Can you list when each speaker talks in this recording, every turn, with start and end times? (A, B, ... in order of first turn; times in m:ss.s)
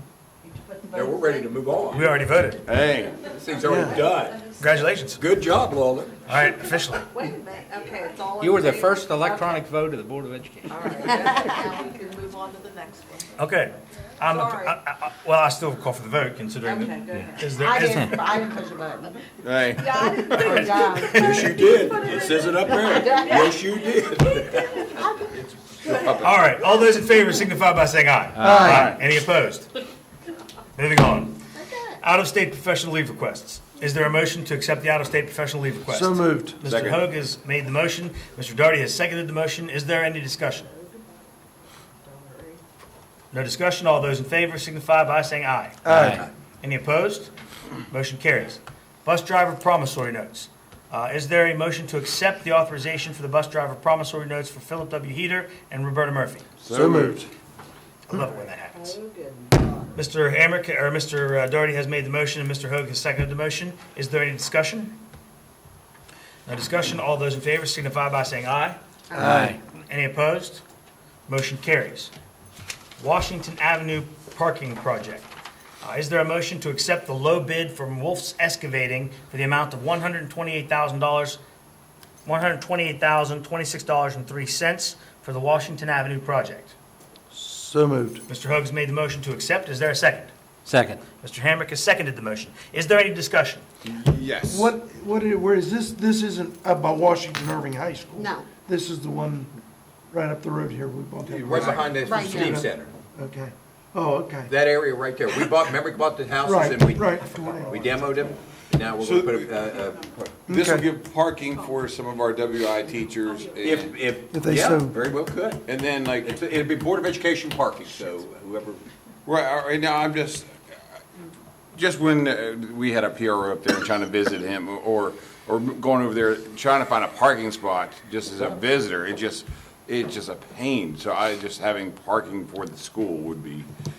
0:00.4-0:02.2 A
0:00.9-0:02.0 B
0:01.9-0:02.6 C
0:02.7-0:03.3 D
0:03.3-0:04.4 B
0:03.6-0:04.1 E
0:03.6-0:04.7 A
0:04.6-0:05.2 C
0:05.1-0:06.2 B
0:06.2-0:07.1 C
0:06.6-0:09.6 A
0:08.4-0:11.1 F
0:10.7-0:13.3 A
0:13.4-0:18.2 C
0:14.2-0:14.8 A
0:16.6-0:17.5 A
0:17.6-0:19.2 G
0:19.5-0:20.6 D
0:19.6-0:19.9 F
0:19.8-0:25.1 A
0:20.3-0:21.5 G
0:21.0-0:21.5 C
0:21.2-0:26.4 B
0:22.9-0:23.2 G
0:25.8-0:26.2 A
0:26.2-0:29.7 C
0:28.4-0:29.0 F
0:28.4-0:28.9 E
0:30.8-0:31.4 C
0:32.0-0:40.7 C
0:35.9-0:36.6 E
0:36.7-0:37.0 D
0:40.6-0:41.0 A
0:42.0-0:42.6 A
0:43.3-0:45.8 C
0:45.8-0:46.2 E
0:45.9-0:46.2 F
0:46.6-0:47.3 C
0:47.9-0:56.4 C
0:56.6-0:57.2 D
0:56.7-0:57.3 E
0:58.1-0:59.0 C
0:58.7-0:59.8 A
0:59.9-1:04.9 C
1:06.4-1:08.8 C
1:09.1-1:09.4 G
1:09.2-1:09.5 E
1:09.2-1:09.6 F
1:09.9-1:10.6 C
1:11.3-1:12.1 C
1:13.0-1:15.3 C
1:15.8-1:21.4 C
1:22.2-1:26.7 C
1:27.3-1:28.2 E
1:28.3-1:30.3 C
1:30.6-1:31.0 F
1:31.2-1:33.6 C
1:34.0-1:34.3 D
1:34.4-1:39.5 E
1:38.1-1:38.5 G
1:40.1-1:44.7 E
1:41.2-1:42.9 B
1:42.0-1:42.6 G
1:44.5-1:50.5 B
1:45.3-1:45.7 E
1:46.4-1:48.3 E
1:49.0-1:49.8 D
1:50.5-1:50.9 E
1:50.5-1:54.0 D
1:53.6-1:58.8 B
1:54.2-1:55.0 E
1:55.6-1:56.4 D
1:59.2-2:00.5 D
2:01.7-2:13.7 D